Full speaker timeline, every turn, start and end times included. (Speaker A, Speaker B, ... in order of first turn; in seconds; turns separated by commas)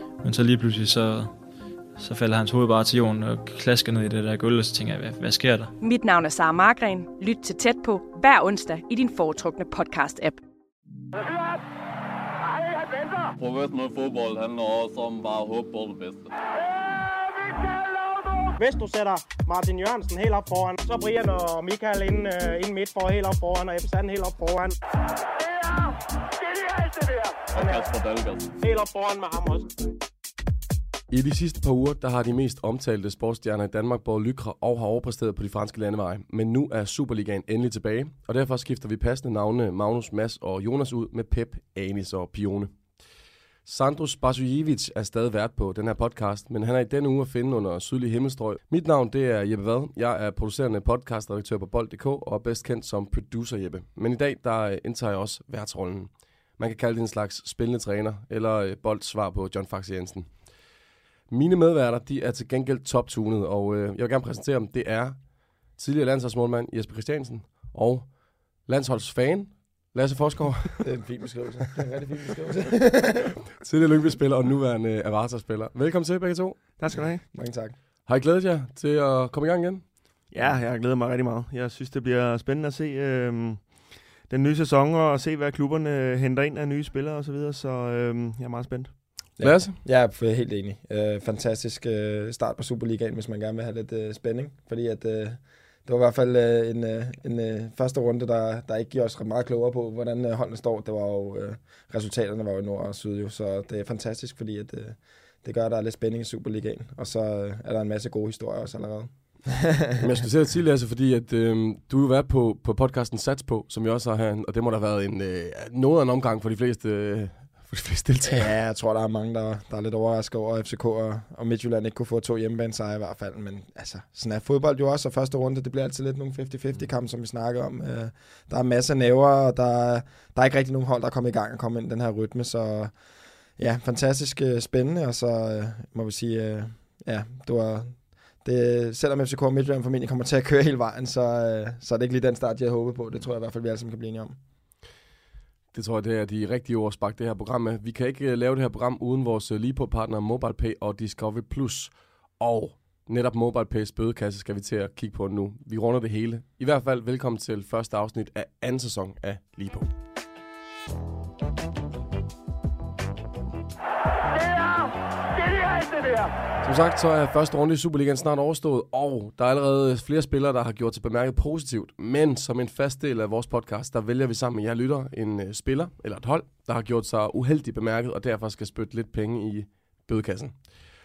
Speaker A: 0.2-1.4, Speaker A: 1.9-5.7, Speaker B: 5.8-10.4, Speaker C: 13.4-16.3, Speaker D: 18.6-24.8, Speaker C: 27.5-28.5, Speaker D: 27.6-27.8, Speaker D: 28.6-29.7, Speaker E: 31.1-42.8, Speaker E: 43.6-60.5, Speaker E: 61.3-65.2, Speaker E: 65.7-68.1, Speaker E: 68.6-70.8, Speaker F: 70.8-73.3, Speaker E: 73.6-76.6, Speaker G: 76.8-77.2, Speaker F: 76.9-77.8, Speaker E: 78.0-79.8, Speaker G: 80.3-89.0, Speaker F: 89.4-109.7, Speaker E: 89.4-89.8, Speaker E: 110.0-118.5, Speaker F: 118.2-132.9, Speaker F: 133.6-144.3, Speaker E: 145.7-159.9, Speaker E: 166.6-180.7